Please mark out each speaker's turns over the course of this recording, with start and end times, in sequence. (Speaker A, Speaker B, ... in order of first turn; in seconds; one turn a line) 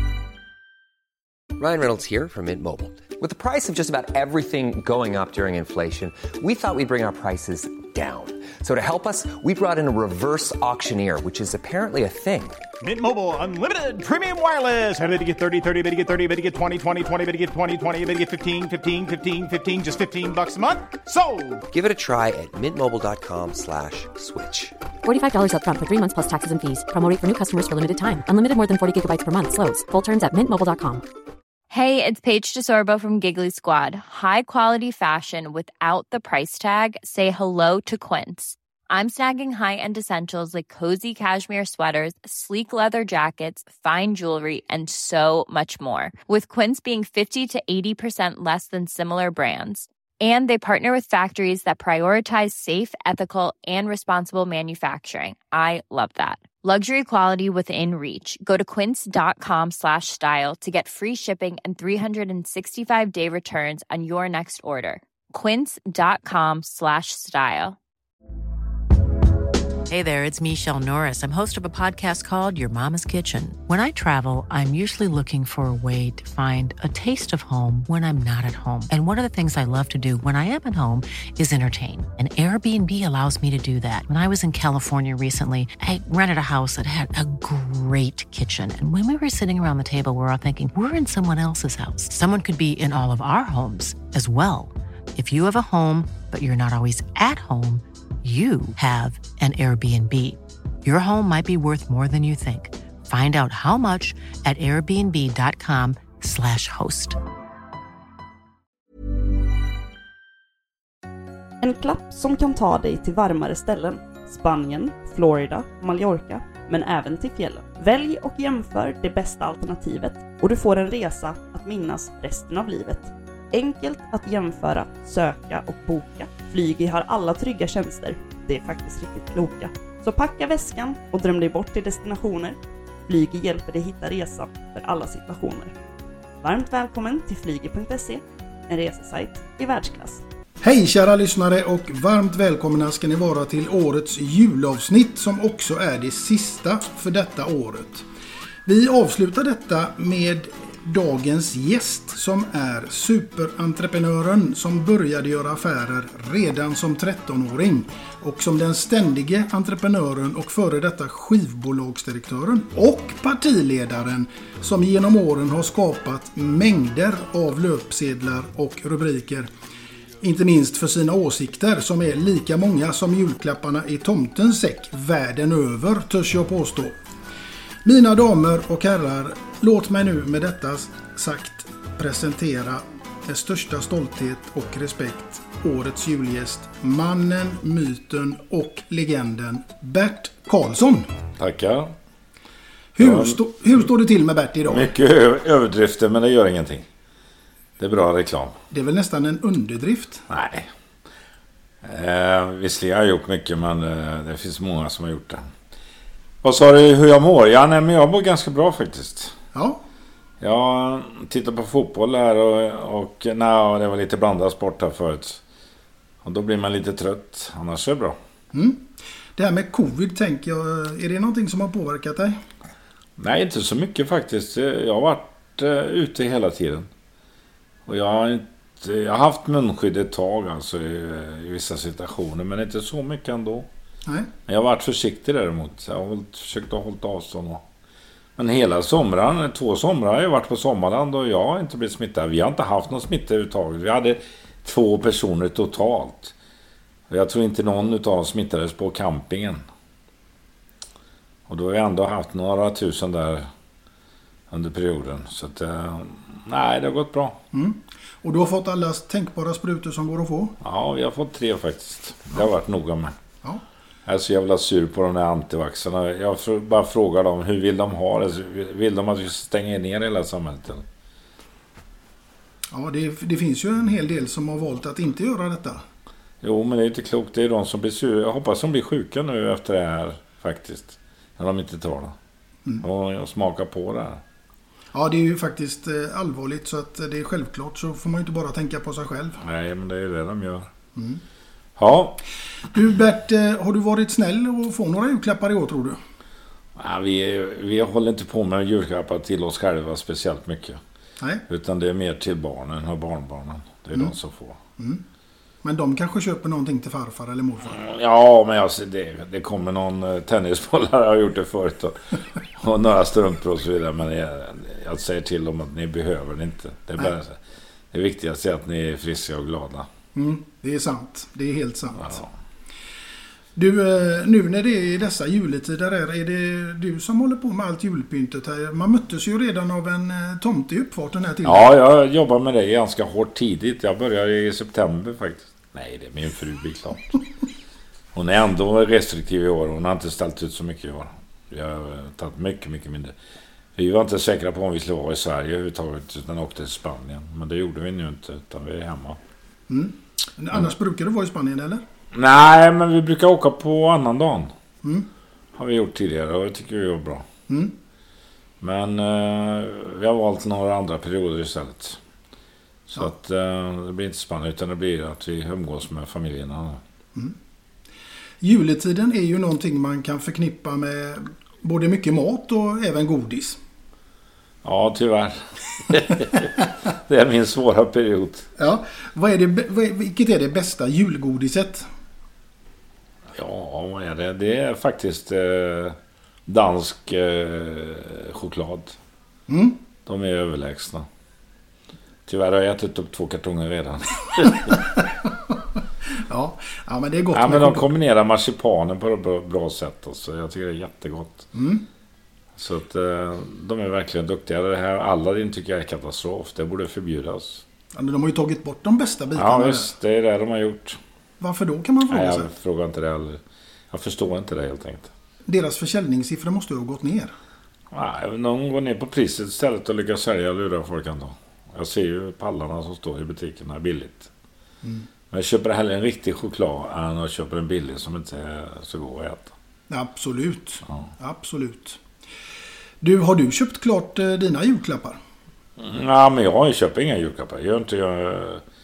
Speaker A: 1.6-12.6
Speaker B: 12.8-21.6
Speaker A: 21.7-24.7
Speaker C: 25.0-31.0
Speaker D: 31.7-67.8
Speaker E: 69.9-107.2
Speaker F: 111.6-135.7
Speaker F: 136.4-140.2
Speaker G: 140.6-148.1
Speaker G: 148.6-169.5
Speaker G: 170.2-176.9
Speaker G: 177.8-191.1
Speaker H: 191.4-191.9
Speaker G: 192.9-194.9
Speaker H: 193.0-193.4
Speaker H: 194.7-196.9
Speaker H: 197.8-198.6
Speaker G: 198.7-200.2
Speaker H: 200.3-200.7
Speaker H: 201.8-205.4
Speaker H: 206.4-209.3
Speaker G: 209.5-209.8
Speaker H: 210.4-215.4
Speaker H: 216.2-218.2
Speaker G: 218.5-222.4
Speaker H: 223.2-226.9
Speaker H: 227.8-233.7
Speaker H: 234.5-237.6
Speaker H: 238.4-246.3
Speaker H: 247.1-249.6
Speaker H: 251.5-253.5
Speaker H: 254.5-257.4
Speaker G: 257.5-260.5
Speaker H: 260.6-263.1
Speaker H: 264.1-270.8
Speaker G: 272.7-275.8
Speaker H: 276.4-282.1
Speaker H: 282.8-284.2
Speaker G: 284.9-289.4
Speaker H: 289.4-290.7
Speaker G: 290.9-291.2
Speaker H: 291.8-292.2
Speaker G: 292.7-296.0
Speaker H: 296.8-300.8
Speaker H: 301.5-304.6
Speaker G: 304.8-305.0
Speaker G: 305.6-307.8
Speaker H: 307.7-317.4
Speaker H: 317.9-319.9
Speaker G: 320.1-322.2
Speaker G: 323.6-331.7
Speaker H: 331.4-337.2
Speaker H: 338.1-343.1
Speaker H: 343.8-349.2
Speaker G: 349.7-351.8
Speaker H: 352.1-354.5
Speaker G: 354.8-355.1
Speaker H: 355.5-357.2
Speaker G: 357.5-357.7
Speaker H: 358.6-362.0
Speaker H: 362.9-366.8
Speaker G: 368.4-373.6
Speaker H: 374.6-378.5
Speaker G: 378.6-381.9
Speaker H: 383.3-385.9
Speaker H: 386.5-389.0
Speaker G: 389.5-389.8
Speaker H: 390.1-391.1
Speaker H: 392.3-394.8
Speaker G: 394.7-395.5
Speaker G: 396.1-397.9
Speaker H: 397.3-401.5
Speaker G: 401.5-401.8
Speaker H: 402.6-407.6
Speaker G: 407.9-409.9
Speaker H: 409.4-411.0
Speaker G: 411.4-412.5
Speaker H: 412.1-415.1
Speaker G: 415.5-417.3
Speaker H: 417.9-424.3
Speaker G: 424.8-425.1
Speaker H: 425.3-429.5
Speaker G: 429.9-432.0
Speaker G: 433.0-435.2
Speaker H: 435.8-438.6